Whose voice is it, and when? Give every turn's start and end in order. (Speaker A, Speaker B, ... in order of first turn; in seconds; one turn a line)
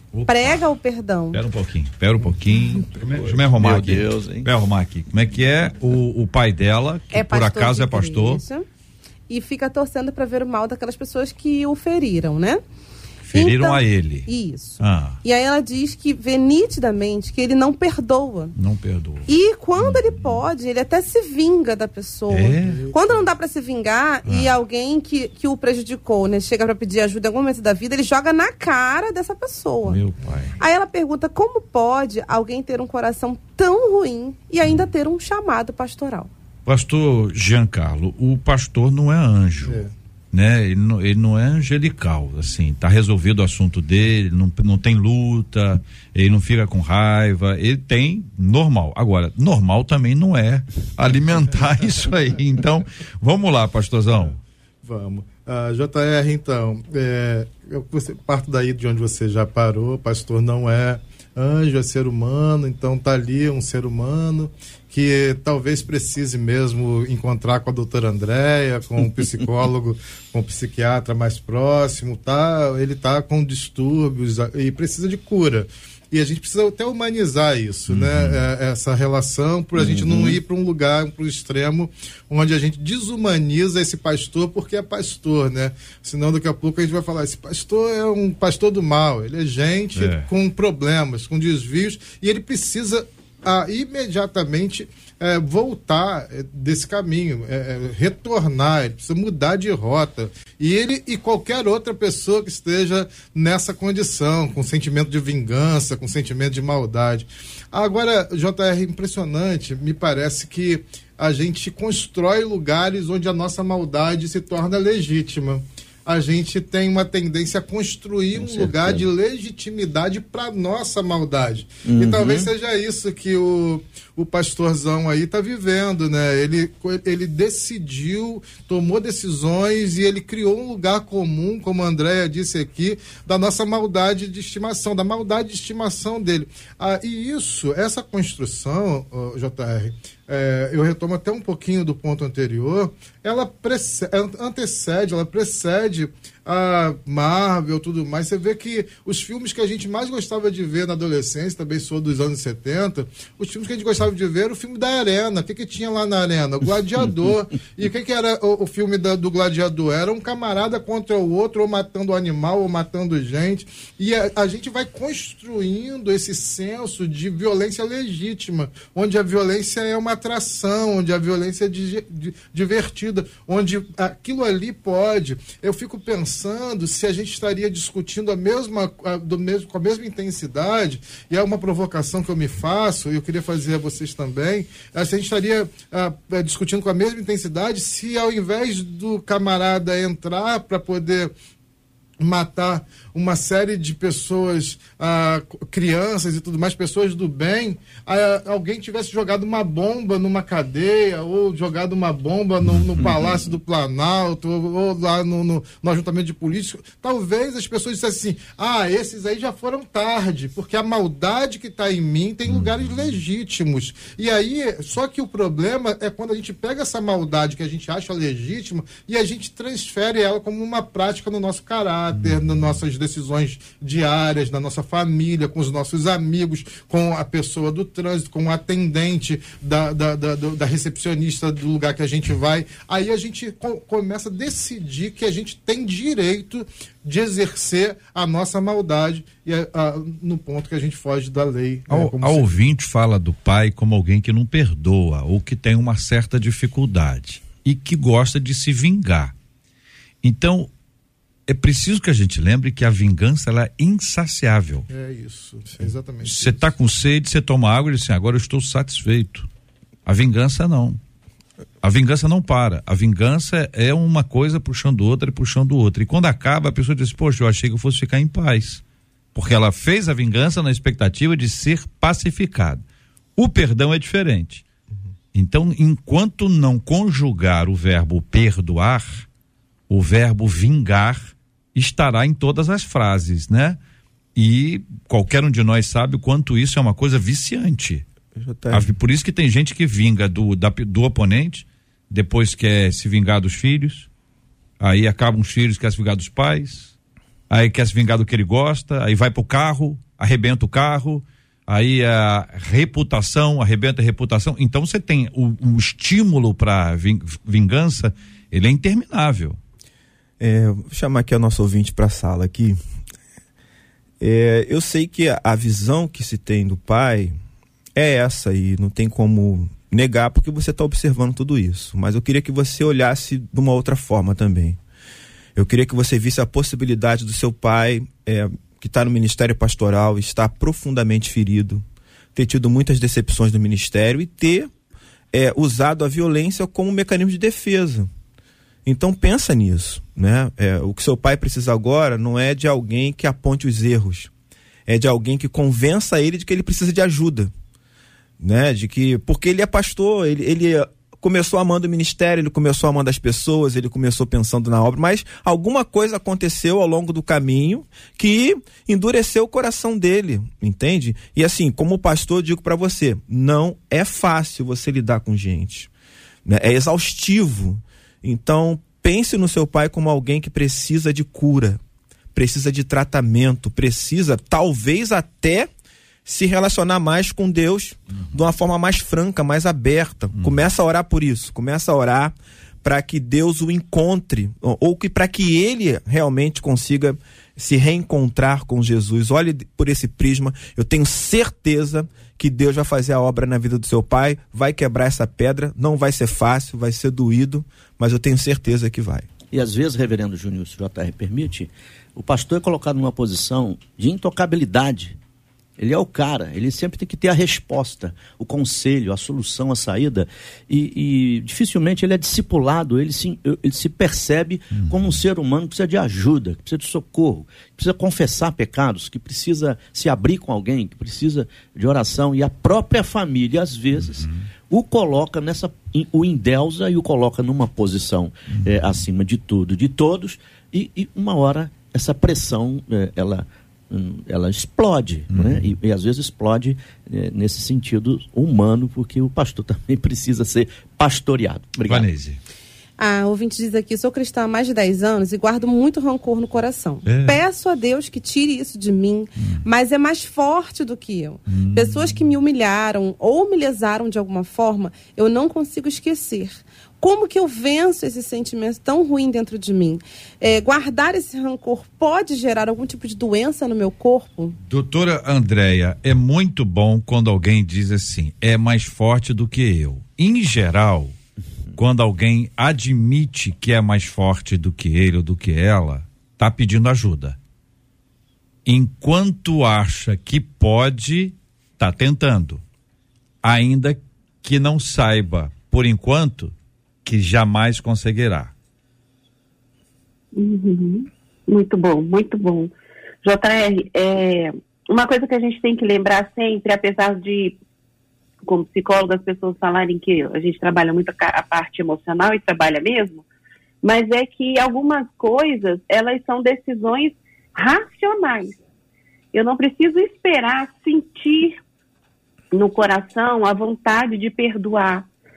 Speaker A: 0.1-0.6
Speaker B: 0.3-1.4
Speaker A: 1.3-8.4
Speaker C: 3.0-4.5
Speaker B: 7.1-8.7
Speaker B: 9.3-12.6
Speaker A: 13.3-14.3
Speaker B: 13.3-18.5
Speaker A: 14.8-15.2
Speaker A: 18.6-20.4
Speaker B: 19.3-30.0
Speaker A: 22.3-22.8
Speaker D: 22.6-23.2
Speaker A: 24.3-24.5
Speaker A: 29.9-30.6
Speaker B: 30.6-36.3
Speaker A: 36.7-39.8
Speaker D: 39.6-39.9
Speaker A: 40.3-54.4
Speaker D: 54.8-191.3
Speaker A: 77.9-78.5
Speaker C: 79.8-80.4
Speaker A: 90.0-90.3
Speaker C: 118.3-119.1
Speaker C: 121.8-122.5
Speaker D: 192.2-242.5
Speaker C: 203.0-203.4
Speaker A: 212.5-212.7
Speaker A: 241.9-249.3
Speaker A: 250.2-250.7
Speaker A: 251.5-254.9
Speaker D: 254.9-256.6
Speaker A: 255.9-259.5
Speaker A: 260.1-261.0
Speaker A: 261.8-268.8
Speaker A: 269.4-272.8
Speaker A: 273.4-274.6
Speaker A: 275.3-279.3
Speaker A: 279.9-283.8
Speaker A: 284.4-288.1
Speaker E: 288.4-288.9
Speaker A: 288.7-294.1
Speaker A: 294.8-296.9
Speaker A: 297.5-309.6
Speaker E: 310.4-312.8
Speaker E: 314.2-317.3
Speaker E: 317.9-324.8
Speaker E: 325.6-331.8
Speaker E: 332.4-334.7
Speaker E: 335.3-338.1
Speaker E: 338.9-344.3
Speaker E: 344.9-347.5
Speaker E: 348.4-365.9
Speaker E: 366.4-371.8
Speaker E: 372.3-375.7
Speaker E: 376.3-399.3
Speaker A: 380.3-380.6
Speaker C: 399.5-405.2
Speaker C: 405.8-442.1
Speaker A: 414.7-415.2
Speaker A: 423.9-424.4
Speaker A: 435.3-435.8
Speaker A: 441.9-442.4
Speaker B: 443.0-464.6
Speaker A: 447.1-447.4
Speaker A: 451.5-452.1
Speaker A: 464.7-471.1
Speaker A: 471.8-477.4
Speaker A: 478.7-482.6
Speaker A: 483.4-486.5
Speaker A: 487.1-488.5
Speaker F: 490.4-492.7
Speaker F: 493.2-497.6
Speaker F: 498.5-503.2
Speaker F: 503.8-508.6
Speaker F: 509.3-511.6
Speaker F: 512.5-515.1